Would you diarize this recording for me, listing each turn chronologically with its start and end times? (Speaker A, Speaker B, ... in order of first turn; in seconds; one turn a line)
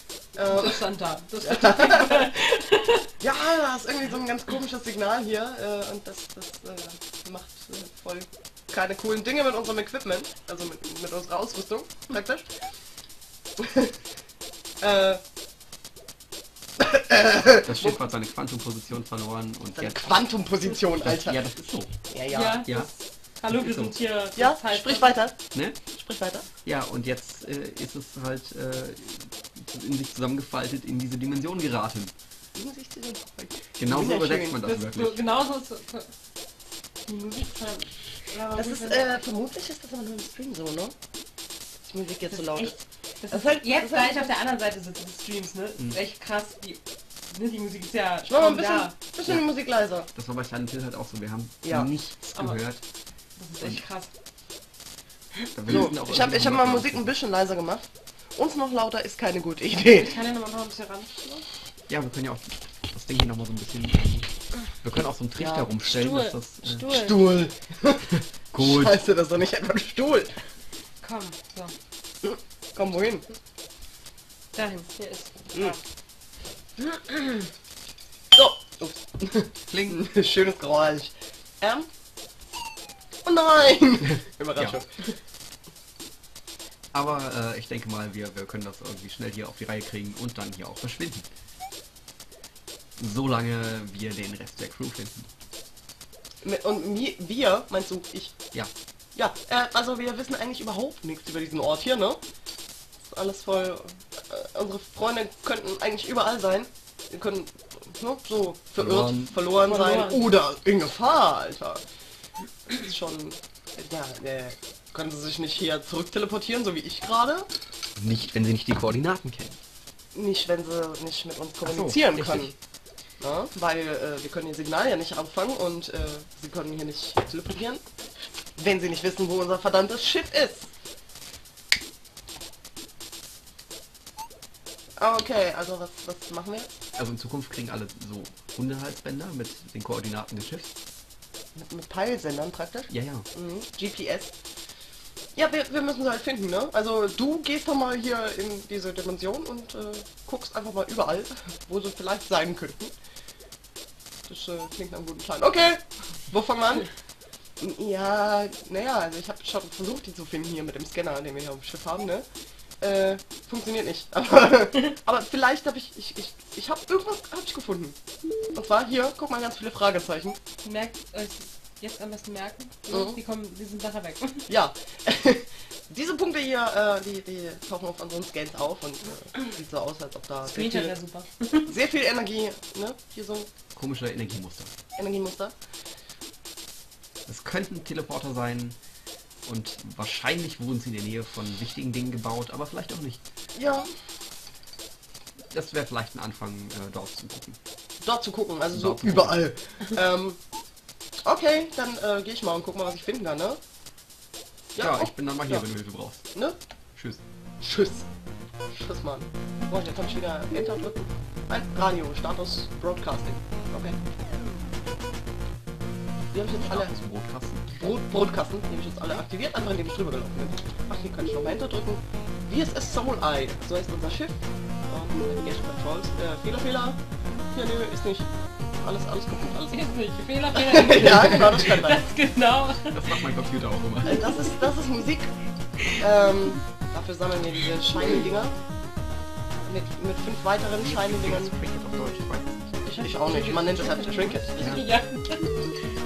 Speaker A: 0.3-0.8
Speaker B: 0.4-3.0
Speaker A: 1.4-2.3
Speaker A: 3.2-12.5
Speaker A: 13.6-13.9
Speaker A: 14.8-15.2
Speaker A: 16.8-18.0
Speaker C: 17.6-20.3
Speaker A: 19.7-21.4
Speaker C: 20.8-21.9
Speaker A: 22.1-22.7
Speaker B: 22.3-25.2
Speaker C: 22.6-22.9
Speaker C: 23.5-24.0
Speaker A: 24.4-26.5
Speaker C: 26.6-32.1
Speaker A: 32.5-34.6
Speaker C: 33.8-35.2
Speaker B: 34.6-36.1
Speaker B: 37.0-39.1
Speaker A: 38.5-40.9
Speaker A: 41.8-42.8
Speaker B: 42.3-48.9
Speaker A: 43.3-44.3
Speaker A: 48.2-50.1
Speaker C: 50.1-52.8
Speaker A: 51.6-51.9
Speaker B: 52.3-52.6
Speaker B: 53.4-54.1
Speaker C: 55.5-57.1
Speaker A: 55.7-60.2
Speaker B: 59.9-61.4
Speaker C: 61.9-66.8
Speaker A: 65.4-65.7
Speaker B: 65.8-67.2
Speaker A: 66.9-70.4
Speaker C: 68.5-69.0
Speaker B: 71.0-71.7
Speaker A: 72.2-73.2
Speaker B: 74.5-75.8
Speaker A: 78.3-81.9
Speaker C: 79.7-80.0
Speaker A: 83.2-85.0
Speaker C: 86.9-91.3
Speaker C: 93.0-95.3
Speaker A: 96.4-98.3
Speaker A: 99.2-102.2
Speaker A: 103.0-111.8
Speaker C: 108.8-109.3
Speaker B: 109.5-110.3
Speaker A: 112.7-117.5
Speaker C: 118.0-119.6
Speaker A: 120.1-122.5
Speaker C: 121.6-122.5
Speaker A: 123.2-127.8
Speaker A: 128.6-130.7
Speaker A: 135.0-136.7
Speaker C: 136.9-140.7
Speaker A: 141.5-144.3
Speaker C: 142.9-143.2
Speaker A: 145.3-152.9
Speaker A: 154.3-156.9
Speaker A: 157.6-162.2
Speaker A: 162.8-167.9
Speaker A: 168.5-170.4
Speaker B: 170.6-174.5
Speaker A: 172.9-173.2
Speaker A: 174.5-180.9
Speaker B: 180.4-181.7
Speaker A: 181.7-183.5
Speaker C: 183.7-184.7
Speaker A: 185.0-185.5
Speaker C: 187.3-188.8
Speaker C: 189.4-193.2
Speaker A: 193.5-193.9
Speaker C: 195.5-197.6
Speaker A: 198.0-200.4
Speaker C: 198.7-199.4
Speaker A: 201.2-203.6
Speaker A: 204.7-205.7
Speaker C: 204.8-206.2
Speaker A: 207.6-208.1
Speaker A: 208.7-214.0
Speaker A: 216.3-216.9
Speaker C: 216.6-217.8
Speaker A: 217.7-227.0
Speaker A: 227.5-229.9
Speaker B: 229.7-233.2
Speaker A: 230.5-232.0
Speaker C: 232.9-234.2
Speaker A: 234.0-235.3
Speaker B: 234.2-234.5
Speaker A: 235.9-238.5
Speaker A: 239.7-241.5
Speaker C: 240.8-242.8
Speaker A: 242.8-244.8
Speaker B: 242.9-245.8
Speaker C: 244.6-244.8